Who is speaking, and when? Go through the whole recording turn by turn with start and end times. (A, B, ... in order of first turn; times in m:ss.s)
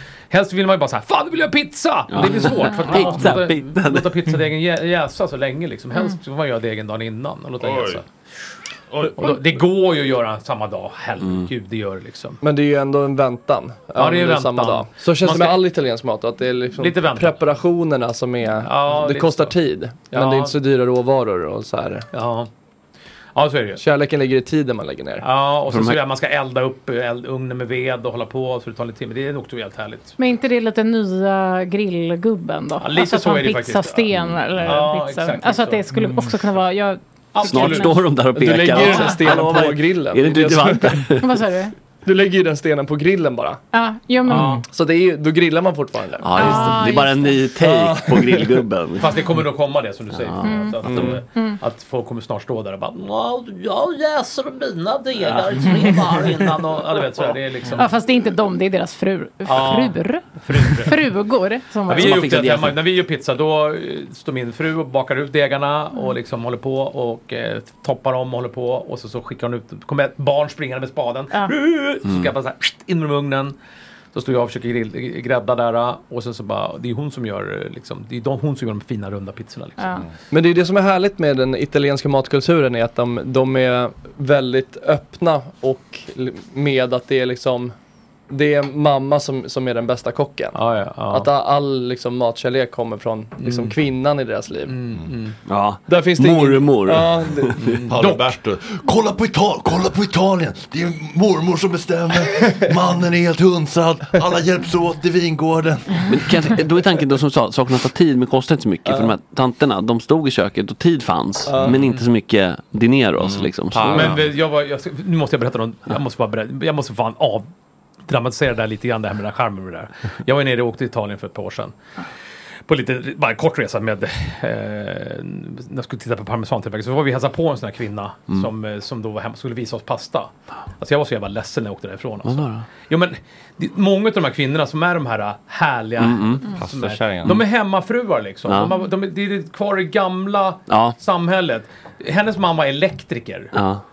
0:00.3-0:08.0 A
0:02.1-0:04.4 B
0:02.6-0:03.0 C
0:07.6-0:08.0 D
0:08.9-0:09.4 D
0:09.1-0:12.4 A
0:12.4-0:22.1 E
0:14.0-0:15.6 A
0:16.8-0:17.4 A
0:18.6-0:19.6 A
0:20.1-0:20.6 A
0:22.1-0:22.5 A
0:23.4-0:23.8 A
0:23.8-0:25.3 E
0:25.2-0:30.2 A
0:25.7-0:26.0 B
0:30.2-0:38.0 C
0:32.8-0:35.9 A
0:37.3-0:39.5 A
0:37.4-0:41.4 B
0:38.3-0:41.1 E
0:41.2-0:41.7 C
0:42.0-0:43.6 E
0:43.7-0:44.6 C
0:44.3-0:44.6 A
0:44.4-0:46.5 E
0:46.2-0:49.2 B
0:46.4-0:47.4 C
0:47.6-0:48.7 E
0:49.0-0:57.9 A
0:50.2-0:51.1 B
0:50.4-0:50.8 C
0:50.8-0:51.2 E
0:57.7-1:02.3 C
0:59.4-1:01.0 A
1:01.9-1:13.6 A
1:01.9-1:02.8 B
1:14.1-1:20.0 A
1:19.8-1:20.0 C
1:20.3-1:27.7 E
1:28.3-1:34.8 E
1:30.5-1:31.3 A
1:33.4-1:33.8 A
1:34.7-1:35.4 A
1:35.5-1:37.6 B
1:35.9-1:37.6 E
1:37.6-1:38.3 A
1:37.9-1:46.6 D
1:46.1-1:54.1 B
1:48.8-1:49.2 E
1:51.5-1:51.8 E
1:51.7-1:52.0 A
1:53.2-1:54.3 D
1:53.9-1:57.5 A
1:58.1-2:01.8 A
2:02.7-2:23.5 A
2:12.2-2:12.7 B
2:16.0-2:16.4 B
2:16.6-2:17.4 D
2:18.5-2:18.7 B
2:20.7-2:21.0 B
2:23.5-2:23.8 B